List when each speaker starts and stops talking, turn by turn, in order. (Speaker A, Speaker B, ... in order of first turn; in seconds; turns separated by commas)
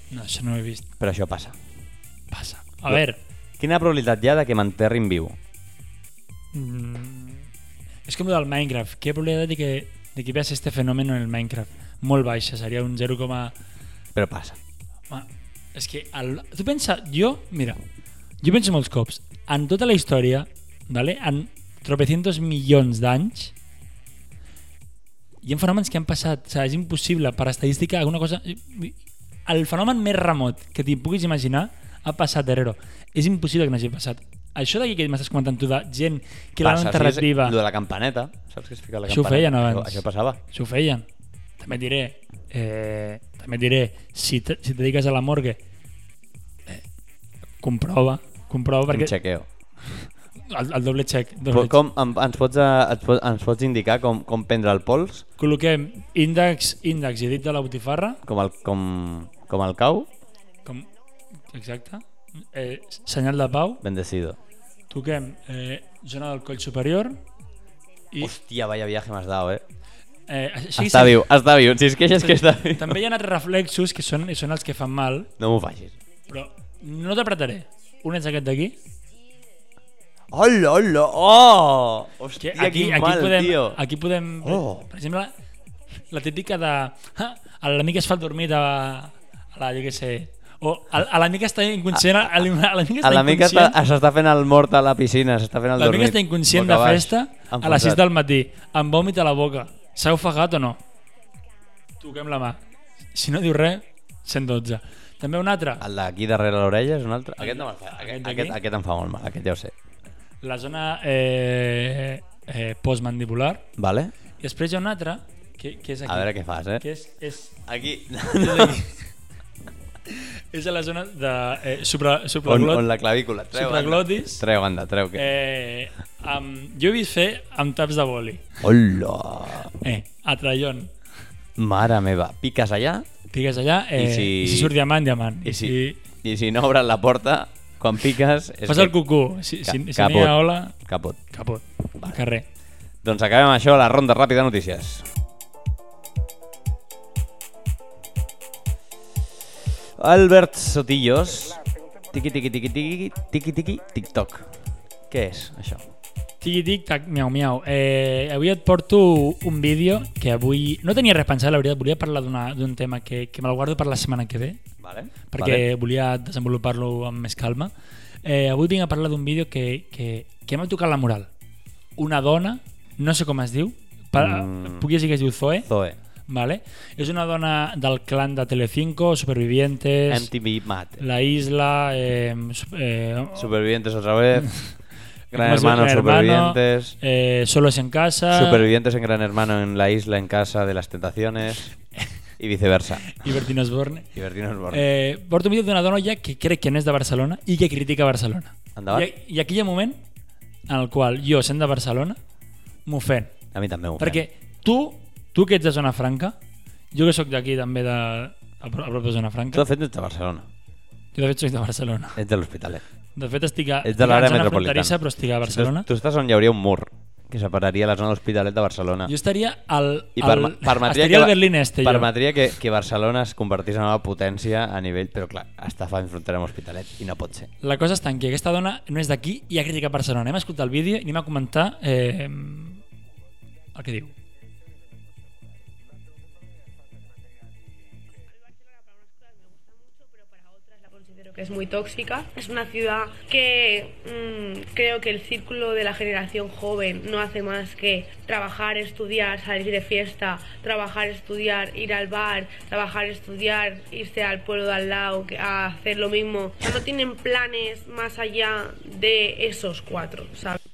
Speaker A: 0.1-0.8, Speaker B: 1.0-1.6, Speaker A: 2.3-3.2, Speaker B: 3.6-5.4, Speaker A: 6.5-7.5, Speaker A: 8.1-13.5, Speaker B: 14.1-14.6, Speaker A: 15.1-17.8, Speaker A: 18.4-23.5, Speaker A: 25.4-37.5, Speaker B: 36.6-40.4, Speaker A: 39.1-41.0, Speaker A: 41.6-45.6, Speaker A: 47.6-49.1, Speaker B: 48.9-49.5, Speaker A: 49.9-51.8, Speaker B: 51.5-55.2, Speaker A: 55.4-58.2, Speaker B: 58.2-60.1, Speaker A: 61.5-63.8, Speaker B: 63.8-64.4, Speaker A: 64.9-67.2, Speaker B: 68.2-69.6, Speaker A: 70.3-71.2, Speaker B: 70.8-73.0, Speaker A: 72.1-75.3, Speaker B: 75.4-76.0, Speaker A: 76.3-78.7, Speaker B: 80.3-83.8, Speaker A: 82.4-85.3, Speaker B: 84.4-84.9, Speaker A: 86.1-93.8, Speaker B: 91.9-92.3, Speaker B: 93.0-98.0, Speaker A: 95.8-100.8, Speaker A: 102.0-102.6, Speaker A: 103.1-105.8, Speaker B: 105.8-109.7, Speaker A: 107.4-108.6, Speaker A: 110.4-113.7, Speaker B: 113.8-114.1, Speaker A: 114.4-117.5, Speaker B: 116.0-116.8, Speaker B: 117.6-118.8, Speaker A: 118.4-119.0, Speaker A: 120.1-122.9, Speaker B: 122.4-125.3, Speaker A: 123.5-124.4, Speaker A: 125.1-128.5, Speaker B: 128.6-129.7, Speaker A: 129.8-130.9, Speaker B: 131.6-133.1, Speaker A: 133.3-136.0, Speaker B: 133.9-134.7, Speaker B: 135.4-138.9, Speaker A: 138.7-140.7, Speaker B: 139.6-141.2, Speaker A: 141.3-142.4, Speaker B: 143.0-145.1, Speaker B: 150.0-151.6, Speaker B: 152.1-154.5, Speaker B: 155.1-155.8, Speaker A: 156.4-164.6, Speaker B: 164.8-165.6, Speaker A: 165.3-167.7, Speaker A: 168.2-171.3, Speaker A: 172.0-175.7, Speaker B: 174.2-174.9, Speaker B: 175.6-176.0, Speaker A: 176.3-180.3, Speaker B: 180.1-181.0, Speaker A: 181.0-183.5, Speaker B: 183.3-184.5, Speaker B: 185.3-186.9, Speaker A: 185.3-188.7, Speaker B: 188.3-191.7, Speaker B: 192.4-193.3, Speaker A: 193.1-194.1, Speaker B: 194.1-194.8, Speaker A: 194.7-200.0, Speaker B: 198.8-199.1, Speaker A: 200.7-202.2, Speaker A: 202.8-203.3, Speaker B: 203.5-204.2, Speaker A: 204.0-206.4, Speaker A: 206.9-209.7, Speaker B: 209.5-210.5, Speaker A: 211.1-212.2, Speaker B: 212.2-212.8, Speaker A: 213.2-215.9, Speaker B: 213.8-219.1, Speaker A: 219.1-222.1, Speaker B: 220.2-227.5, Speaker A: 227.6-232.8, Speaker A: 233.7-234.1, Speaker C: 238.3-260.6